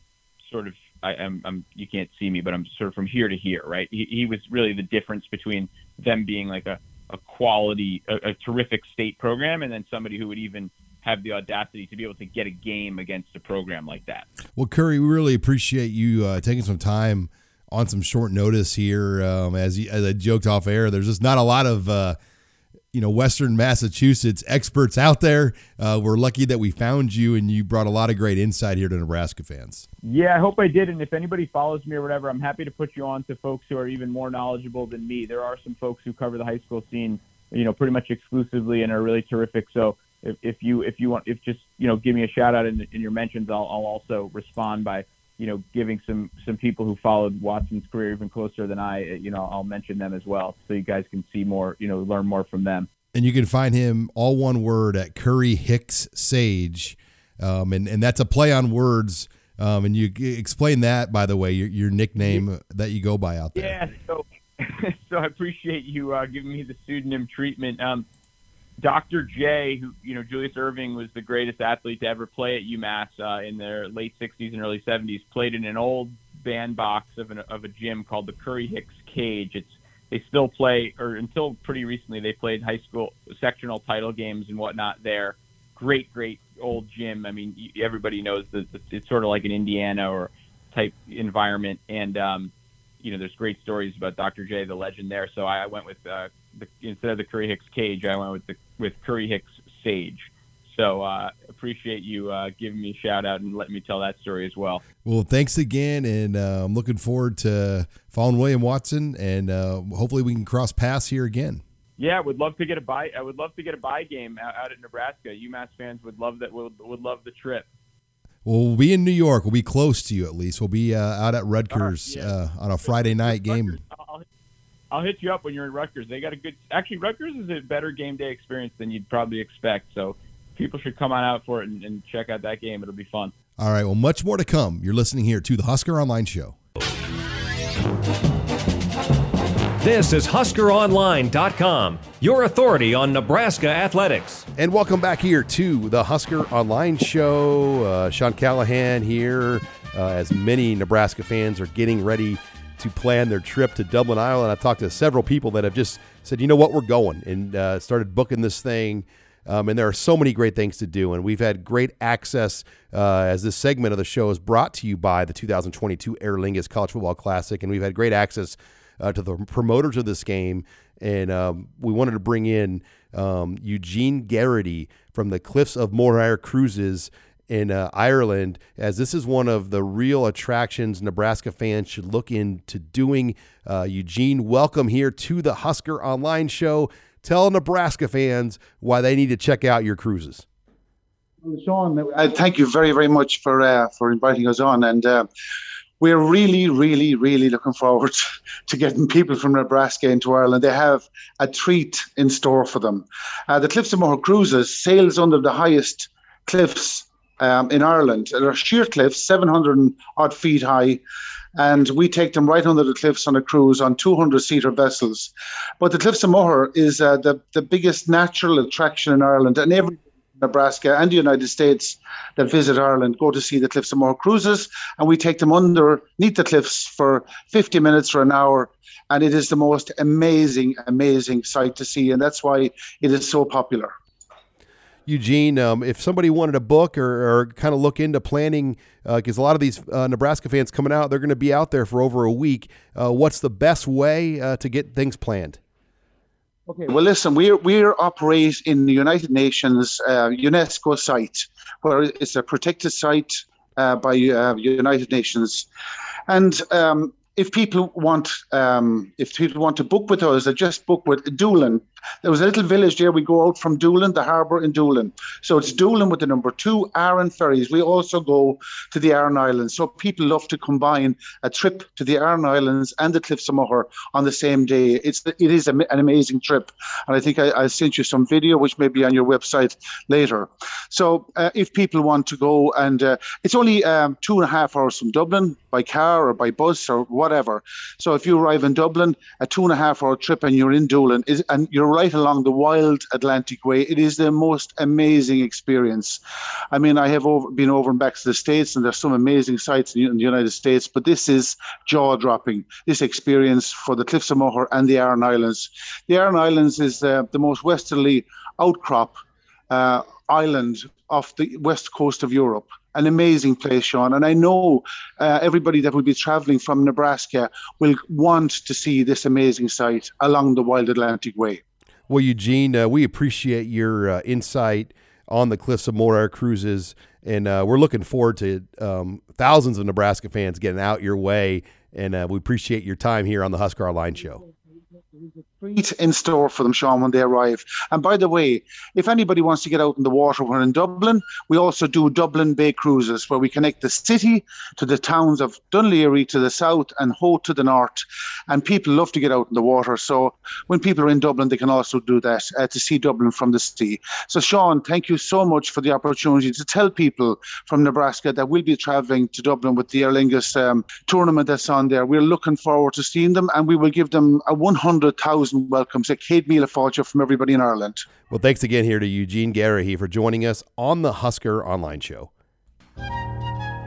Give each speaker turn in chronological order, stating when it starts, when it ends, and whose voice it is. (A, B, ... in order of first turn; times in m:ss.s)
0:00.4-0:14.3 A
0:14.6-0:22.2 B
0:22.9-0:29.9 B
0:30.0-0:52.9 A
0:53.1-1:03.8 B
1:03.6-1:08.1 A
1:08.8-1:44.8 A
1:45.0-1:51.6 B
1:52.0-1:57.7 A
1:58.4-2:03.8 B
2:01.7-2:04.3 A
2:04.9-2:13.3 A
2:13.6-2:16.6 B
2:19.8-2:24.5 C
2:24.6-3:10.4 B
3:11.4-3:15.3 D
3:16.0-3:31.0 D
3:31.6-3:53.9 D
3:55.1-4:05.6 B
4:06.7-4:15.7 D
4:16.3-4:56.2 D
4:56.7-5:21.6 D
5:22.1-5:34.4 B
5:35.1-6:08.0 D
6:08.3-6:12.3 B